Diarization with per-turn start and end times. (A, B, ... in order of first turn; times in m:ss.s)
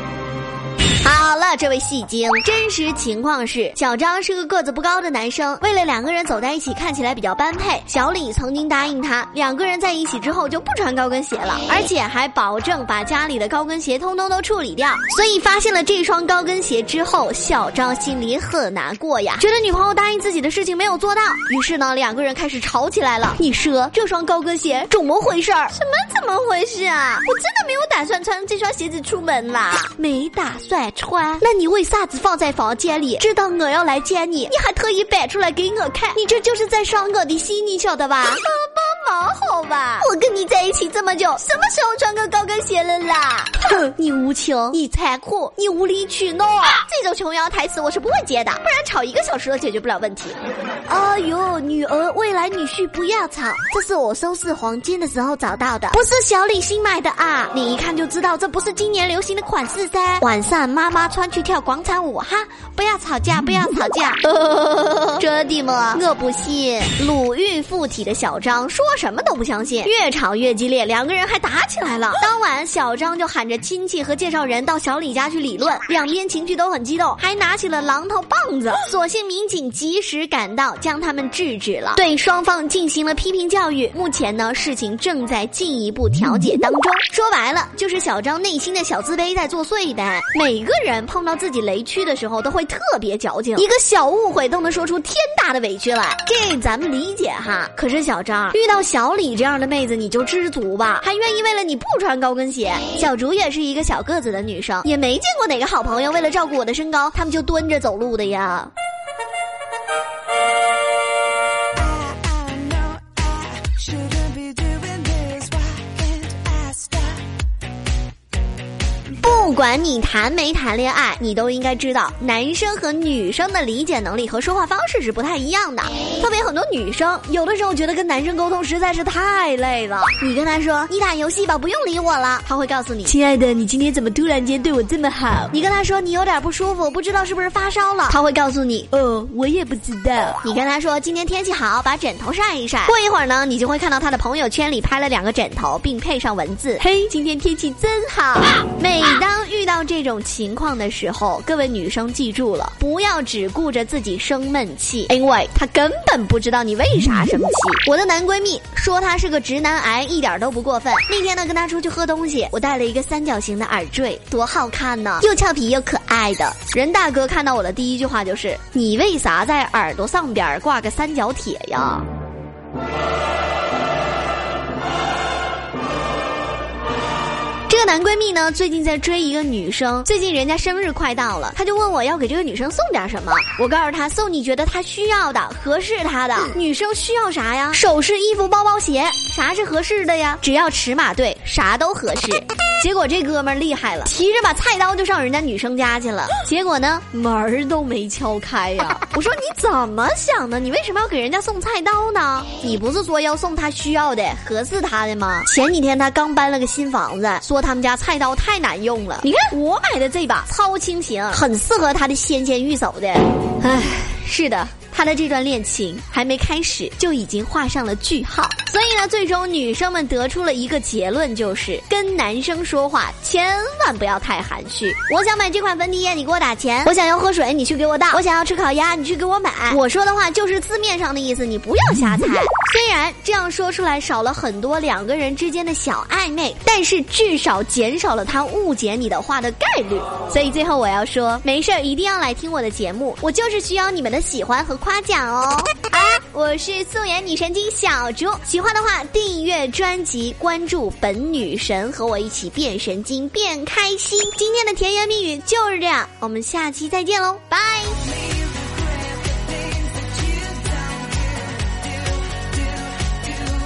0:01.0-1:48.7 A
1:59.1-2:52.1 A
2:57.7-4:18.2 A